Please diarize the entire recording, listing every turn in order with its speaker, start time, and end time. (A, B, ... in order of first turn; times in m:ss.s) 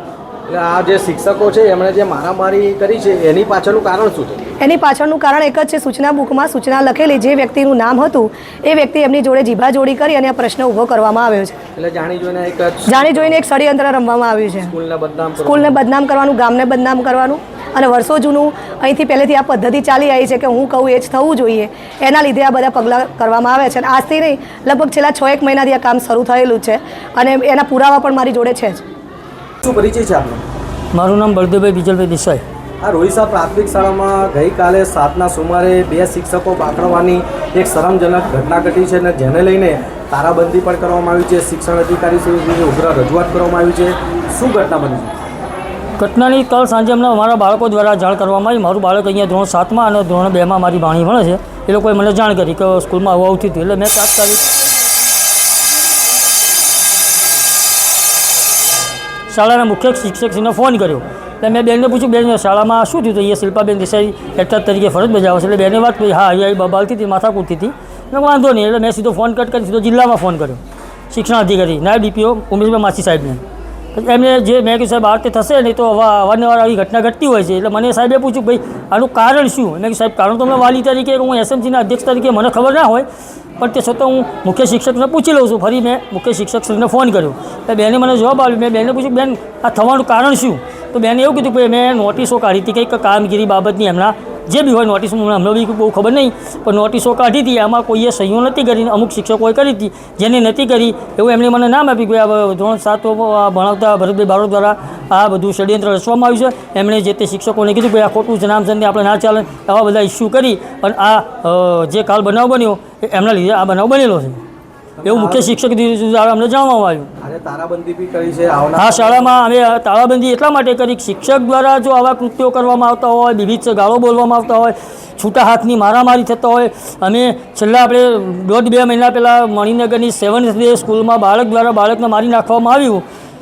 0:00.5-0:04.4 A
0:04.6-0:11.6 B
0:11.8-0:13.5 A
0:12.9-0:14.7 B
0:14.6-0:15.8 A
0:15.4-0:28.8 B
0:29.6-0:30.4 A
0:30.9-0:32.4 C
0:32.8-0:45.2 A
0:46.0-0:54.5 C
0:59.3-1:13.4 C
1:14.0-1:23.1 C
1:23.6-1:54.4 C
1:55.0-1:55.5 A
1:55.0-1:57.1 C
1:57.2-1:59.3 A
1:58.8-2:13.0 C